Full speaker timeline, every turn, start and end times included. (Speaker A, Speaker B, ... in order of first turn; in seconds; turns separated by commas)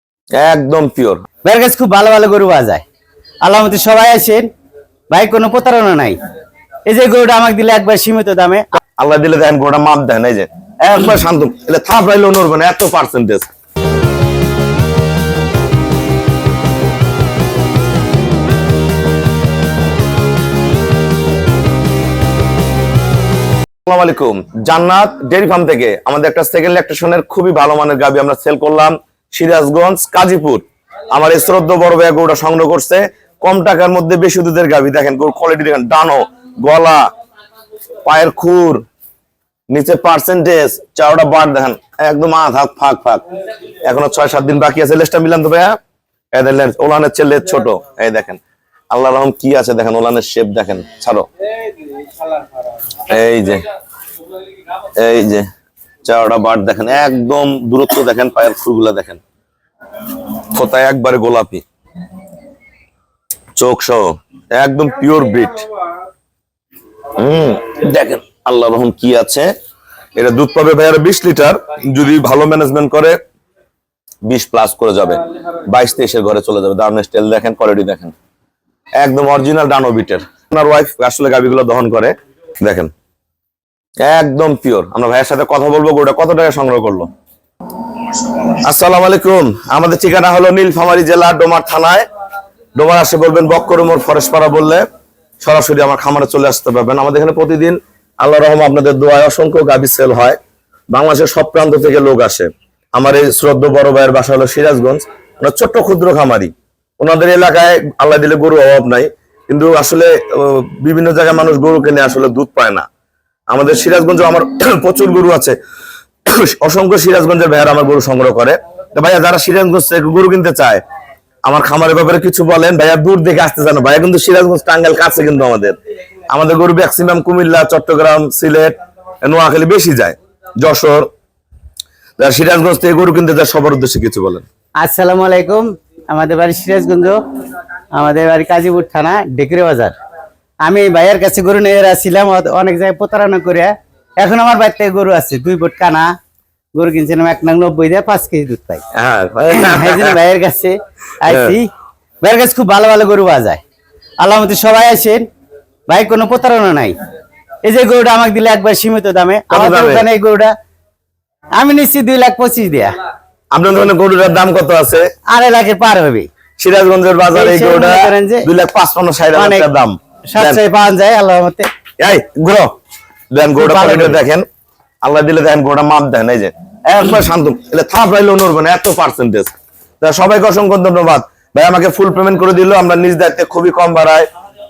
Speaker A: 0.3-1.2, Speaker B: 1.4-2.8, Speaker B: 3.4-4.5, Speaker B: 5.1-6.2, Speaker B: 6.9-8.8, Speaker A: 9.0-13.5, Speaker A: 23.9-37.1, Speaker A: 38.0-38.8, Speaker A: 39.7-43.2, Speaker A: 43.8-45.8, Speaker A: 46.3-51.3, Speaker A: 53.0-53.7, Speaker A: 55.0-55.5, Speaker A: 56.0-59.2, Speaker A: 60.4-61.6, Speaker A: 63.6-65.6, Speaker A: 67.1-69.5, Speaker A: 70.2-73.2, Speaker A: 74.3-78.1, Speaker A: 79.0-82.9, Speaker A: 84.0-87.1, Speaker A: 88.5-92.0, Speaker A: 92.8-94.8, Speaker A: 95.4-100.4, Speaker A: 100.9-112.8, Speaker A: 113.5-115.6, Speaker A: 116.3-120.8, Speaker A: 121.4-125.8, Speaker A: 126.3-131.1, Speaker A: 132.2-134.4, Speaker B: 134.8-137.2, Speaker B: 137.9-139.9, Speaker B: 140.6-146.1, Speaker B: 146.8-148.8, Speaker A: 148.9-150.2, Speaker B: 149.5-151.7, Speaker A: 151.2-151.5, Speaker B: 152.2-153.6, Speaker B: 154.2-155.2, Speaker B: 155.9-156.9, Speaker B: 157.6-160.5, Speaker A: 159.5-160.0, Speaker B: 161.6-163.0, Speaker A: 163.5-165.1, Speaker B: 165.3-166.3, Speaker A: 166.6-170.6, Speaker B: 167.3-168.5, Speaker B: 169.3-169.7, Speaker B: 170.3-171.7, Speaker A: 172.0-172.7, Speaker A: 173.3-174.4, Speaker B: 173.4-174.2, Speaker A: 175.0-184.3